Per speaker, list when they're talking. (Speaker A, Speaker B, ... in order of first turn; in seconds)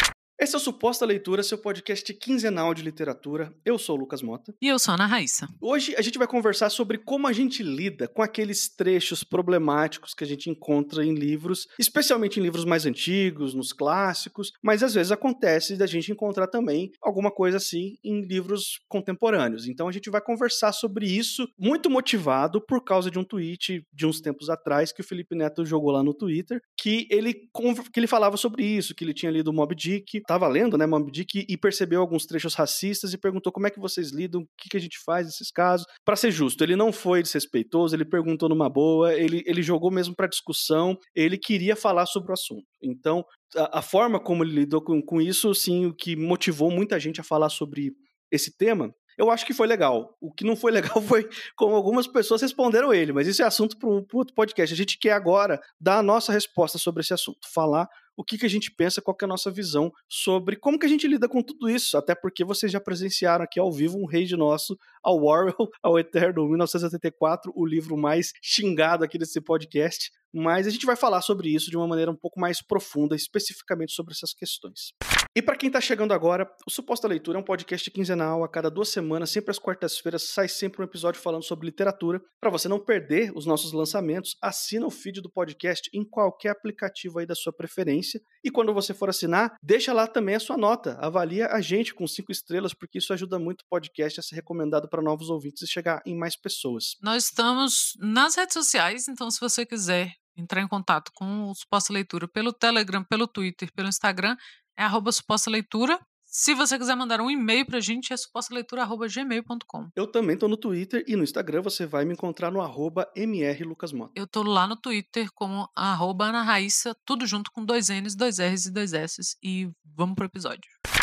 Speaker A: 0.4-4.6, 5.6-97.0, 110.0-114.1
Speaker B: 4.6-5.5, 97.0-109.9, 114.2-120.8